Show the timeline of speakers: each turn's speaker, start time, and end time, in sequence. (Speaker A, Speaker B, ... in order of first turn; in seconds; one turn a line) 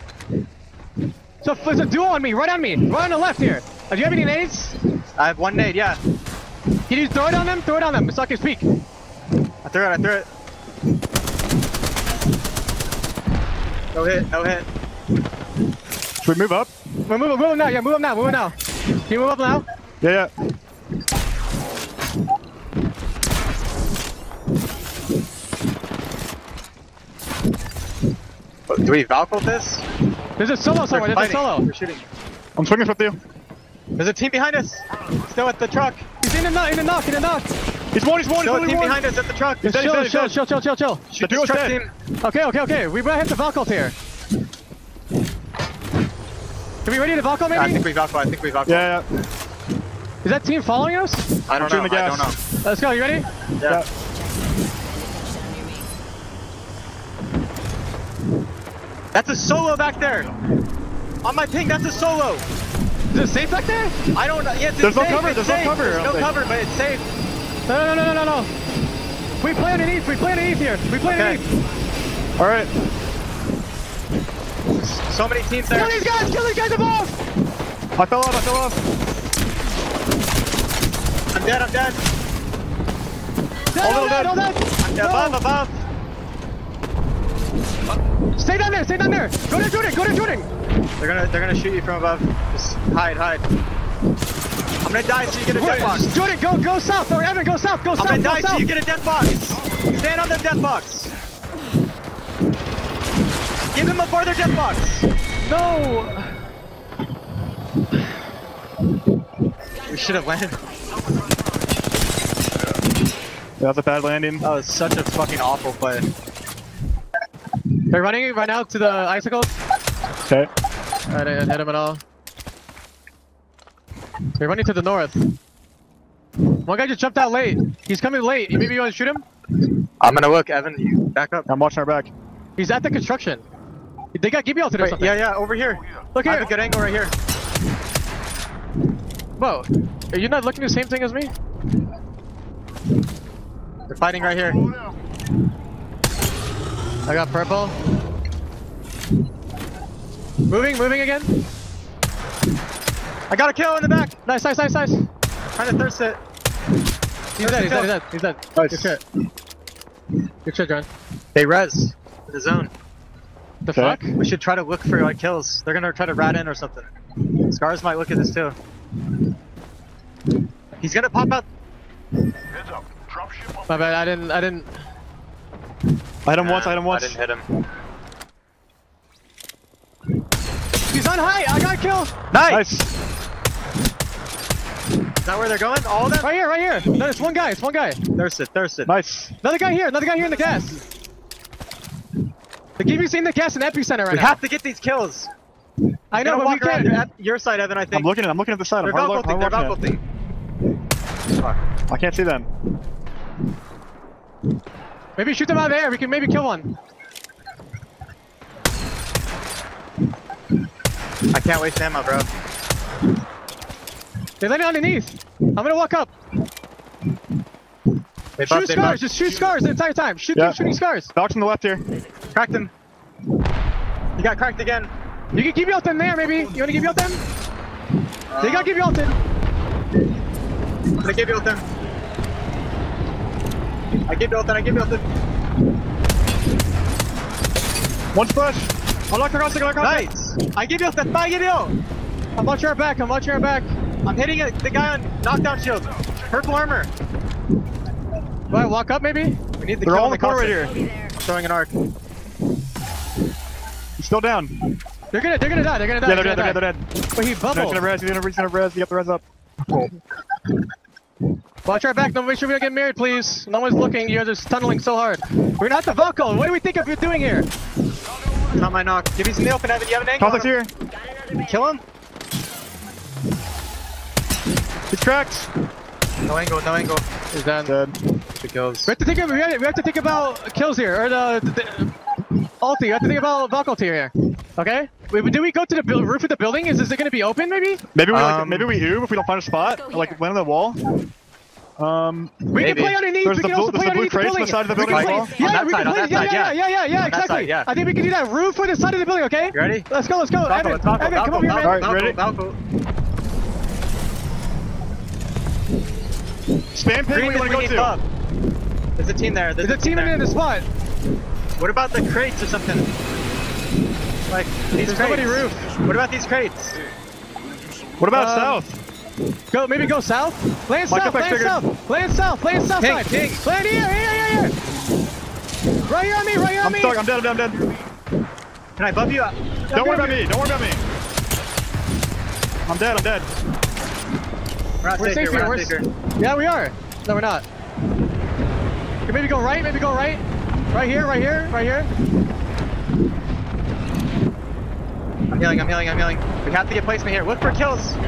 Speaker A: 1.4-4.8
Speaker B: 5.2-6.0
Speaker A: 6.9-8.8
Speaker B: 9.6-10.3
Speaker B: 13.9-14.7
Speaker C: 16.2-16.7
Speaker A: 17.1-18.5
Speaker A: 19.1-19.6
Speaker C: 20.0-20.3
Speaker B: 28.7-29.8
Speaker A: 30.4-31.7
Speaker B: 30.9-32.0
Speaker C: 32.6-33.2
Speaker B: 34.0-36.0
Speaker A: 36.2-37.5
Speaker C: 37.9-39.0
Speaker B: 38.4-39.7
Speaker C: 39.6-40.4
Speaker A: 39.6-41.0
Speaker B: 41.1-41.9
Speaker C: 41.2-41.8
Speaker A: 42.2-43.9
Speaker A: 46.8-47.8
Speaker B: 47.5-48.9
Speaker C: 48.7-49.0
Speaker A: 50.2-51.4
Speaker B: 51.5-52.4
Speaker C: 51.5-52.3
Speaker A: 52.6-53.3
Speaker B: 59.1-60.3
Speaker B: 61.2-62.5
Speaker A: 63.1-63.9
Speaker B: 64.1-67.0
Speaker C: 64.8-66.3
Speaker A: 67.7-68.5
Speaker A: 69.4-71.4
Speaker B: 71.0-71.4
Speaker C: 72.4-72.7
Speaker B: 74.8-76.1
Speaker A: 75.7-77.2
Speaker C: 78.0-78.8
Speaker B: 81.3-82.0
Speaker A: 83.7-85.4
Speaker C: 83.8-84.4
Speaker B: 84.8-85.8
Speaker A: 88.3-90.5
Speaker B: 91.0-93.4
Speaker B: 94.8-96.1
Speaker A: 95.5-98.7
Speaker B: 98.0-101.1
Speaker B: 103.7-105.1
Speaker A: 105.4-106.3
Speaker B: 109.8-110.6
Speaker C: 113.6-114.4
Speaker B: 114.4-116.1
Speaker A: 117.9-119.5
Speaker A: 121.1-122.0
Speaker A: 124.3-125.3
Speaker A: 126.6-129.2
Speaker B: 130.0-131.5
Speaker C: 131.5-132.1
Speaker A: 132.6-133.4
Speaker A: 134.1-135.2
Speaker B: 134.8-137.1
Speaker A: 136.1-136.5
Speaker A: 139.4-141.3
Speaker B: 143.9-144.7
Speaker A: 147.1-147.7
Speaker A: 150.5-151.4
Speaker B: 153.3-154.2
Speaker A: 154.2-155.1
Speaker B: 155.6-156.2
Speaker A: 157.4-159.0
Speaker B: 157.4-157.9
Speaker B: 158.5-159.0
Speaker A: 160.4-160.9
Speaker B: 161.3-162.7
Speaker A: 163.6-164.1
Speaker C: 163.7-164.0
Speaker B: 164.2-168.6
Speaker B: 170.8-171.4
Speaker A: 173.7-174.7
Speaker C: 176.2-177.2
Speaker B: 176.4-177.6
Speaker A: 180.9-182.1
Speaker B: 182.3-182.6
Speaker C: 182.5-182.9
Speaker B: 185.2-186.3
Speaker A: 186.2-188.0
Speaker B: 188.2-188.9
Speaker C: 188.8-189.3
Speaker A: 189.4-190.8
Speaker A: 192.8-194.4
Speaker B: 194.1-195.3
Speaker A: 196.1-197.0
Speaker B: 196.1-198.1
Speaker C: 197.9-199.8
Speaker B: 198.8-200.0
Speaker C: 201.9-202.5
Speaker A: 205.2-206.7
Speaker B: 211.3-212.3
Speaker A: 214.4-216.1
Speaker B: 218.4-219.0
Speaker A: 218.4-221.1
Speaker C: 221.1-221.8
Speaker B: 222.3-222.7
Speaker B: 224.2-224.9
Speaker A: 225.3-227.2
Speaker B: 228.3-228.7
Speaker A: 228.4-229.1
Speaker B: 231.0-231.6
Speaker B: 234.1-235.0
Speaker C: 238.1-240.1
Speaker B: 239.8-241.8
Speaker A: 242.4-243.7
Speaker B: 244.0-246.9
Speaker A: 248.5-249.4
Speaker B: 249.6-251.7
Speaker C: 249.8-250.7
Speaker C: 254.0-254.8
Speaker A: 255.1-257.8
Speaker C: 256.0-256.8
Speaker C: 257.5-259.2
Speaker A: 261.6-267.5
Speaker B: 268.5-270.5
Speaker C: 270.2-270.7
Speaker B: 271.4-271.8
Speaker C: 274.9-275.5
Speaker B: 276.3-277.0
Speaker A: 277.3-277.7
Speaker C: 277.6-278.0
Speaker B: 278.4-278.9
Speaker A: 278.9-281.9
Speaker A: 282.6-287.8
Speaker C: 287.9-290.9
Speaker B: 288.1-288.7
Speaker C: 291.8-292.4
Speaker A: 292.5-301.9
Speaker B: 292.6-293.0
Speaker C: 293.2-295.4
Speaker B: 294.7-297.7
Speaker B: 299.5-299.9
Speaker B: 300.4-302.6
Speaker C: 301.6-302.2
Speaker C: 306.7-307.9
Speaker B: 307.1-308.0
Speaker B: 309.0-310.2
Speaker A: 309.6-310.6
Speaker B: 311.6-312.9
Speaker B: 314.3-316.8
Speaker A: 314.8-315.7
Speaker C: 318.0-318.8
Speaker A: 318.1-318.6
Speaker A: 319.5-324.5
Speaker C: 320.9-321.6
Speaker B: 322.8-323.4
Speaker A: 325.8-327.0
Speaker C: 326.6-327.6
Speaker B: 328.8-330.0
Speaker C: 329.7-330.8
Speaker A: 329.7-330.2
Speaker C: 332.6-333.3
Speaker B: 334.8-335.9
Speaker A: 335.0-337.4
Speaker A: 339.1-341.9
Speaker B: 345.3-348.0